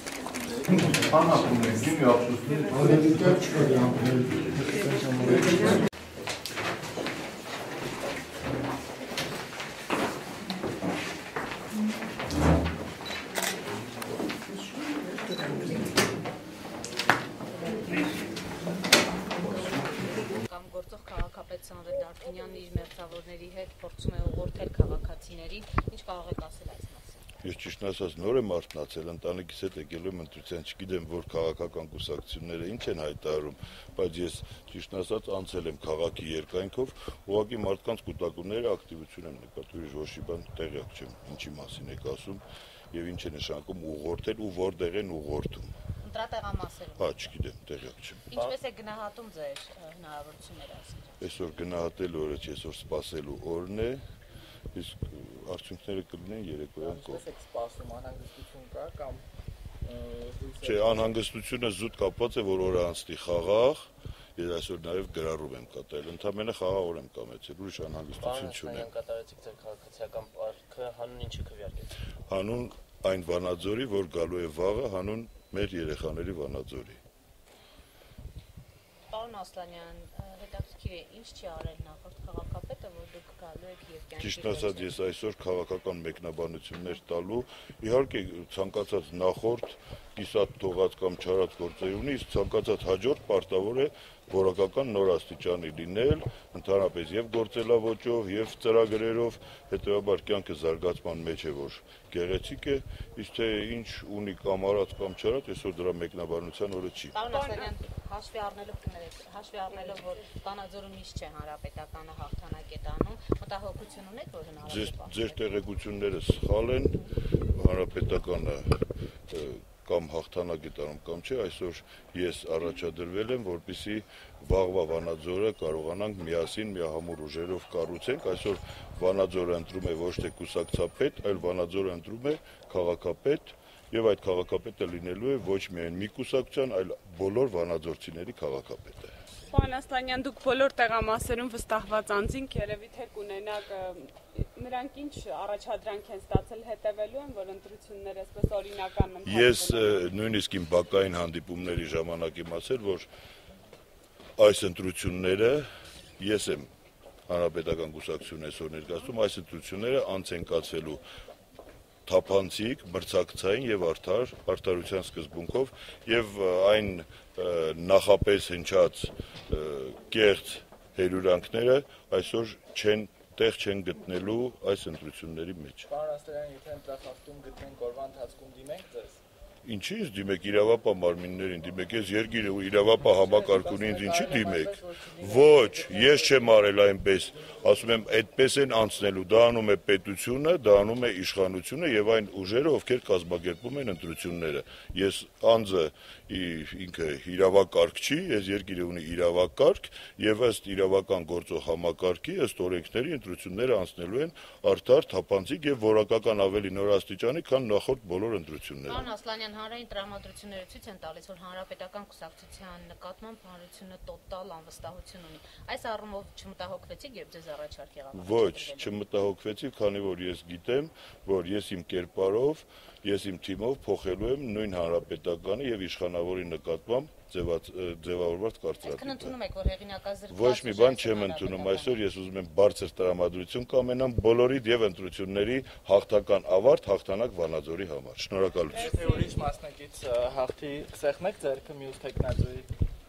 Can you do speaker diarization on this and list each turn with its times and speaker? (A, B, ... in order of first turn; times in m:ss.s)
0:00.7-0:05.6 A
0:02.4-0:03.0 B
0:05.4-0:05.7 B
0:20.3-0:27.2 C
0:27.4-0:45.7 D
0:46.0-0:47.3 C
0:47.0-0:48.2 D
0:48.3-0:51.2 C
0:51.2-0:54.0 D
0:54.7-0:57.2 D
0:56.8-0:59.2 A
0:59.8-1:01.1 A
1:00.6-1:03.8 D
1:04.4-1:08.9 D
1:08.2-1:11.9 E
1:12.3-1:17.0 D
1:19.1-1:24.9 C
1:24.2-1:47.1 D
1:47.1-1:55.4 C
1:47.3-1:47.7 B
1:54.6-2:19.1 D
2:19.5-2:30.1 B
2:29.2-2:33.1 D
2:34.4-2:35.7 D
2:36.2-2:36.7 D
2:37.3-2:41.0 D
2:42.0-2:55.9 D
2:55.9-2:59.2 A
2:59.6-3:29.1 D
3:03.0-3:06.5 A
3:28.8-3:39.0 C
3:38.1-3:49.4 D
3:48.8-3:52.0 C
3:50.3-3:58.9 D
3:58.7-3:59.4 B
3:58.7-4:02.7 A